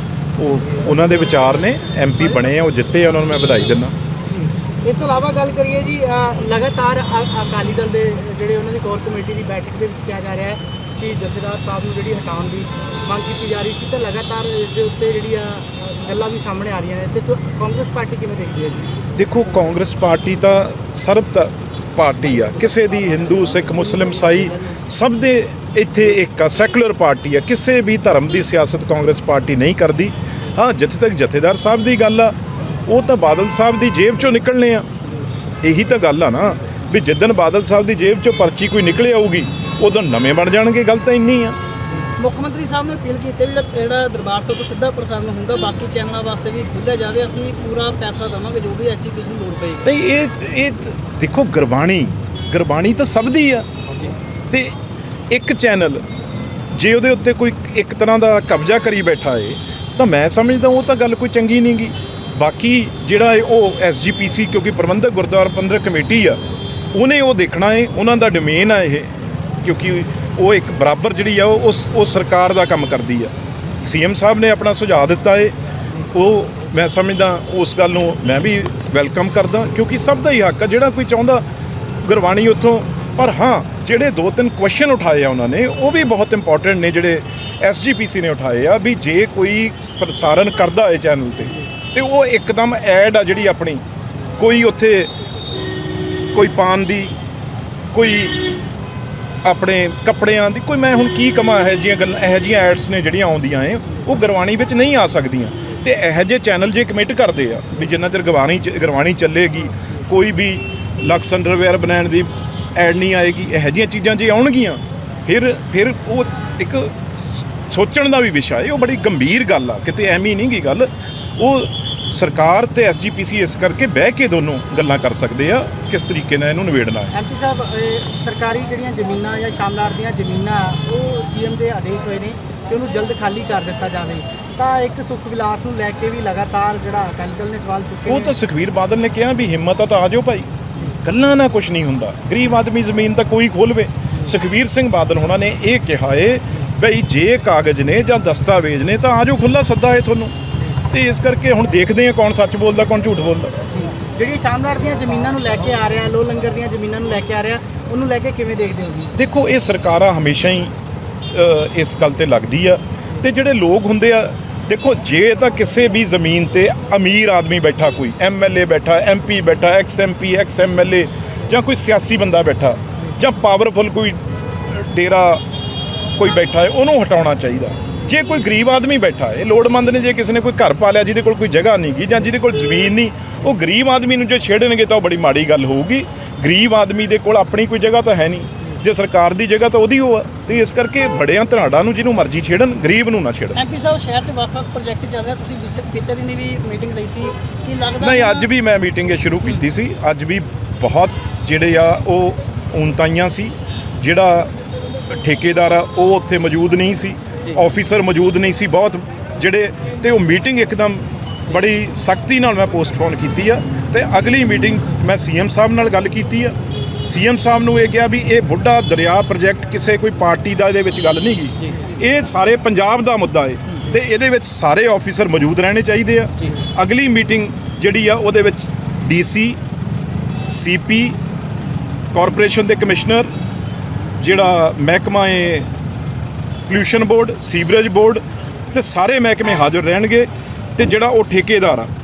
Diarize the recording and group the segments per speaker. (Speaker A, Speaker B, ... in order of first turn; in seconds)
Speaker A: 0.4-3.9, 19.2-32.4, 32.9-34.9, 35.6-41.6, 49.8-53.7, 54.5-54.8, 55.3-56.0, 56.7-66.4, 66.9-75.5, 76.1-81.4, 82.0-93.8, 94.4-95.1, 96.3-97.2, 97.9-98.5, 99.4-127.1, 138.1-140.5, 141.0-150.3, 150.9-153.6, 159.2-160.7, 161.3-175.4, 176.2-193.6, 198.0-204.5, 205.1-229.6, 230.5-231.2, 232.1-233.3, 234.2-235.7, 236.7-241.9
Speaker B: 4.3-18.9, 127.1-138.4, 153.8-159.1
Speaker C: 42.2-49.8, 193.6-198.5, 221.6-221.8